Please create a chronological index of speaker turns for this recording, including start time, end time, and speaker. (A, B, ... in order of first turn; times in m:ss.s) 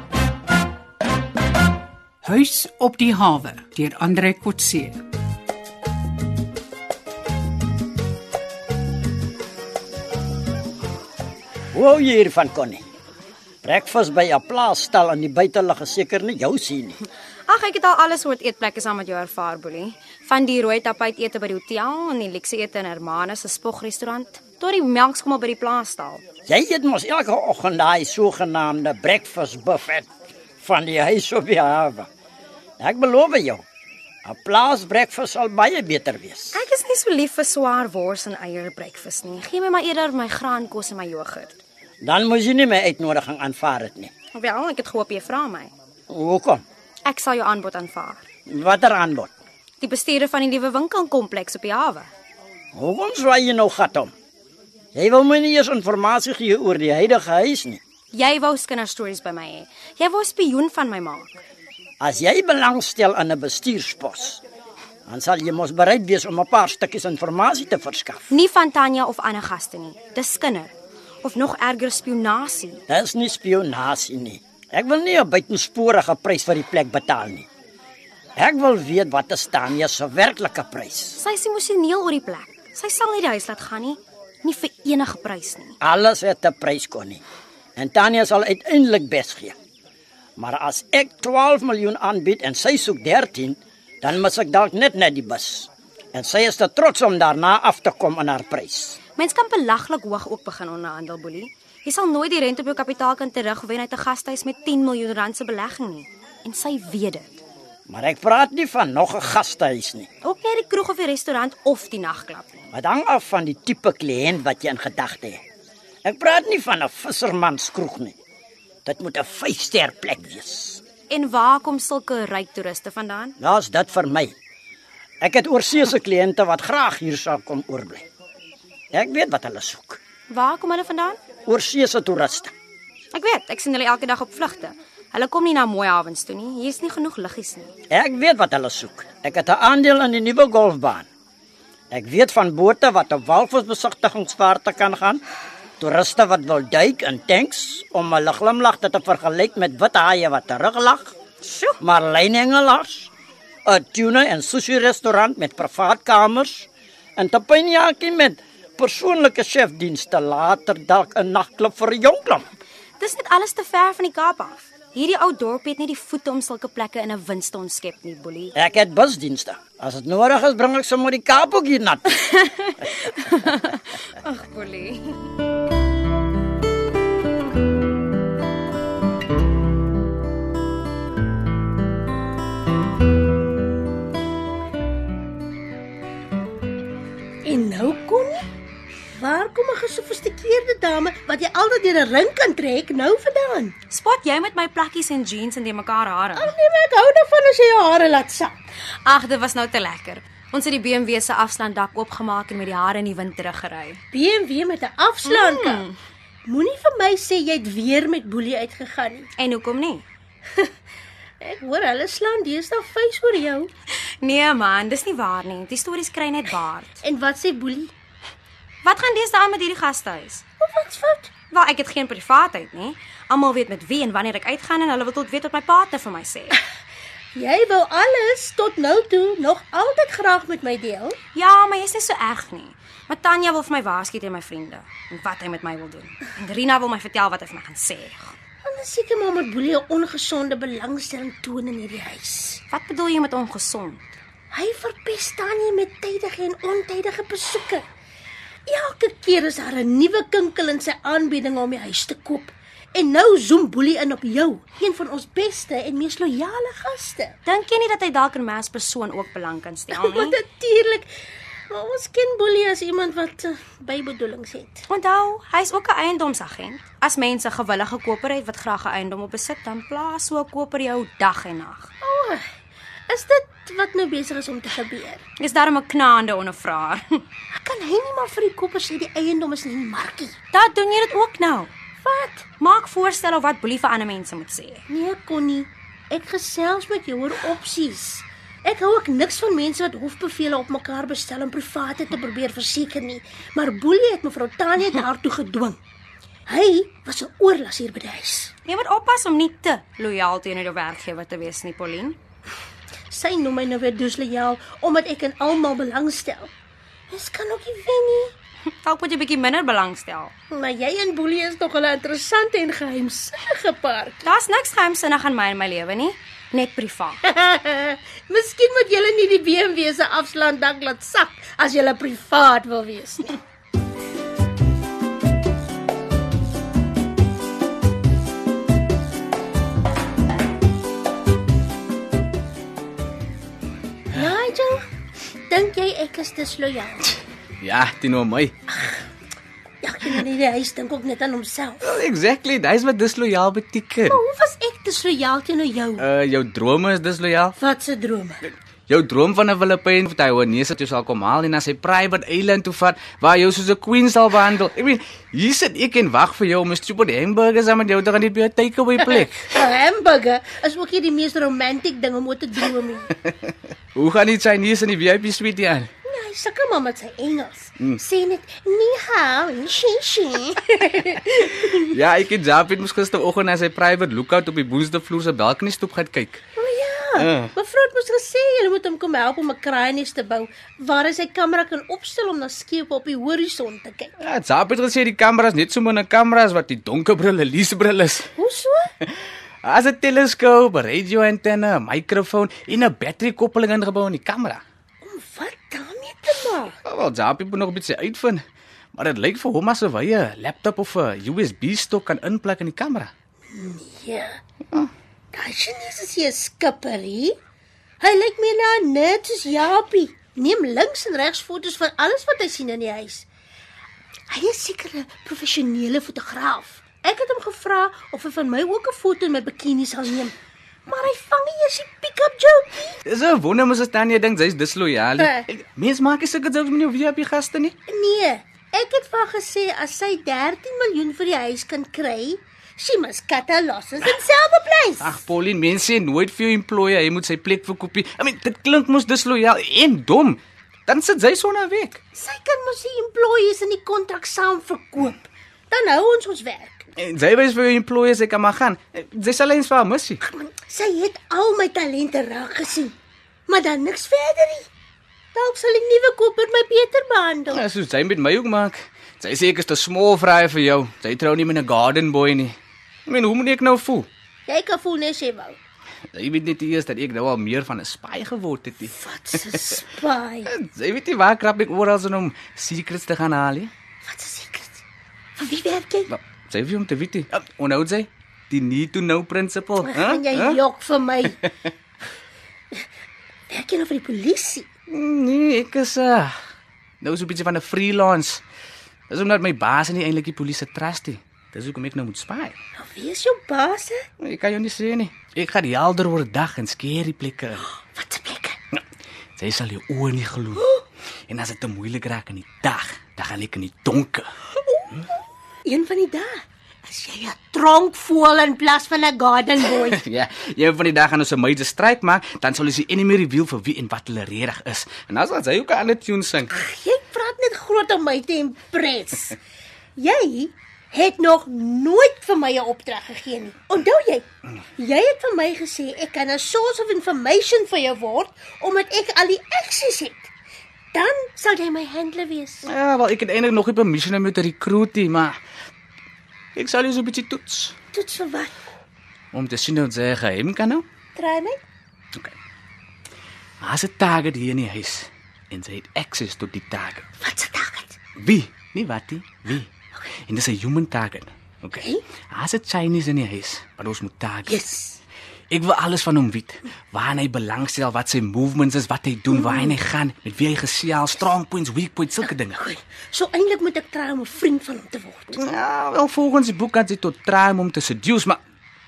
0:02.2-0:05.0 A
0:11.7-0:12.8 B
0:13.6-0:17.0 B
0:17.5-0:26.2 C
0:26.5-0:30.1 B
0:30.6-0:32.1 B
0:32.8-0:33.6 B
0:34.2-0:36.6 B
0:36.5-0:41.6 C
0:42.0-0:44.1 B
0:44.3-0:45.7 C
0:46.1-0:46.6 B
0:47.0-0:48.2 C
0:48.5-0:49.3 B
0:49.8-0:52.1 C
0:52.7-0:54.1 B
0:54.9-0:57.8 B
0:58.1-1:01.4 C
1:02.0-1:04.4 B
1:05.1-1:08.3 B
1:08.3-1:12.8 C
1:12.9-1:17.5 B
1:18.4-1:21.2 B
1:21.2-1:25.8 C
1:25.8-1:27.2 B
1:27.8-1:29.6 B
1:30.4-1:39.0 B
1:39.2-1:47.4 C
1:47.9-1:50.1 B
1:50.2-1:52.7 C
1:52.7-1:55.4 B
1:56.0-1:58.2 B
1:58.8-2:00.8 B
2:01.1-2:03.4 C
2:03.4-2:04.4 B
2:05.2-2:08.0 B
2:08.9-2:10.0 B
2:10.3-2:11.2 C
2:11.4-2:12.5 B
2:13.1-2:17.7 C
2:17.9-2:21.0 B
2:21.9-2:25.2 B
2:25.8-2:31.1 B
2:31.4-2:31.8 C
2:31.8-2:33.1 B
2:33.6-2:42.4 B
2:43.0-2:48.5 C
2:48.6-2:52.2 B
2:52.4-2:55.2 C
3:07.4-3:08.4 D
3:09.1-3:13.7 D
3:13.9-3:16.5 C
3:16.4-3:18.6 D
3:19.0-3:24.0 C
3:24.1-3:25.8 D
3:25.2-3:26.0 C
3:26.4-3:29.3 D
3:29.4-3:30.0 C
3:31.4-3:33.7 D
3:34.0-3:37.0 C
3:37.0-3:37.9 D
3:38.8-3:40.4 C
3:40.6-3:41.3 D
3:41.5-3:46.6 C
3:47.3-3:51.2 D
3:51.3-3:58.3 C
3:58.6-4:02.6 D
4:02.7-4:04.2 C
4:04.5-4:07.8 D
4:08.7-4:17.4 D
4:17.4-4:20.4 C
4:19.9-4:21.1 D
4:21.7-4:24.8 D
4:24.9-4:31.9 C
4:32.0-4:32.4 D
4:33.1-4:35.2 D
4:35.4-4:37.2 C
4:37.5-4:40.3 D
4:40.5-4:41.7 C
4:42.0-4:42.5 D
4:42.6-4:44.8 C
4:44.9-4:55.8 D
4:56.5-4:58.5 D
4:58.6-5:02.2 C
5:03.1-5:06.5 D
5:07.1-5:08.3 D
5:08.8-5:10.3 C
5:10.5-5:14.2 D
5:14.2-5:17.2 C
5:17.3-5:23.4 D
5:34.1-5:34.8 D
5:35.5-5:37.2 D
5:37.6-5:38.5 E
5:38.7-5:39.0 D
5:39.8-5:41.8 D
5:41.8-5:44.2 E
5:44.1-5:46.1 D
5:46.0-5:47.6 E
5:47.6-5:48.4 D
5:48.9-5:59.5 E
5:59.0-6:03.1 D
6:03.2-6:05.9 E
6:06.0-6:11.8 D
6:11.7-6:16.4 E
6:16.6-6:24.1 D
6:17.2-6:17.5 E
6:24.2-6:28.3 E
6:28.4-6:28.9 D
6:29.0-6:34.6 E
6:35.0-6:36.8 D
6:36.8-6:38.4 E
6:38.9-6:43.1 E
6:43.5-6:44.4 D
6:45.3-6:47.4 D
6:48.0-6:53.2 D
6:54.3-7:00.3 D
7:00.9-7:03.0 D
7:03.0-7:07.8 E
7:05.2-7:05.4 D
7:07.9-7:15.2 D
7:15.0-7:22.0 E
7:22.1-7:26.9 D
7:27.0-7:30.2 E
7:30.2-7:32.9 D
7:33.5-7:34.7 D
7:35.3-7:37.6 D
7:37.5-7:42.6 E
7:43.1-7:44.1 E
7:44.5-7:45.6 D
7:46.1-7:49.0 E
7:48.9-7:50.5 D
7:50.4-7:53.7 E
7:54.0-7:54.8 D
7:55.4-7:56.1 D
7:56.1-8:00.6 E
7:59.8-8:01.4 D
8:03.5-8:04.7 D
8:04.9-8:06.4 E
8:07.0-8:08.4 E
8:09.1-8:12.6 E
8:12.8-8:14.0 D
8:14.2-8:17.7 E
8:17.8-8:18.6 D
8:19.4-8:20.7 E
8:20.6-8:20.8 D
8:21.3-8:24.3 E
8:24.6-8:25.0 D
8:25.6-8:30.0 D
8:29.8-8:36.5 E
8:36.5-8:39.4 D
8:40.0-8:44.2 D
8:44.8-8:50.3 D
8:50.9-8:52.7 D
8:52.6-8:55.4 E
8:56.6-8:57.7 E
8:57.9-8:58.6 D
8:59.3-9:00.8 E
9:01.2-9:01.6 D
9:03.6-9:07.0 E
9:07.2-9:08.0 D
9:08.2-9:09.7 E
9:10.2-9:14.6 E
9:11.7-9:12.0 D
9:14.4-9:15.0 D
9:15.5-9:22.6 E
9:19.3-9:19.8 D
9:22.2-9:25.4 D
9:25.3-9:28.4 E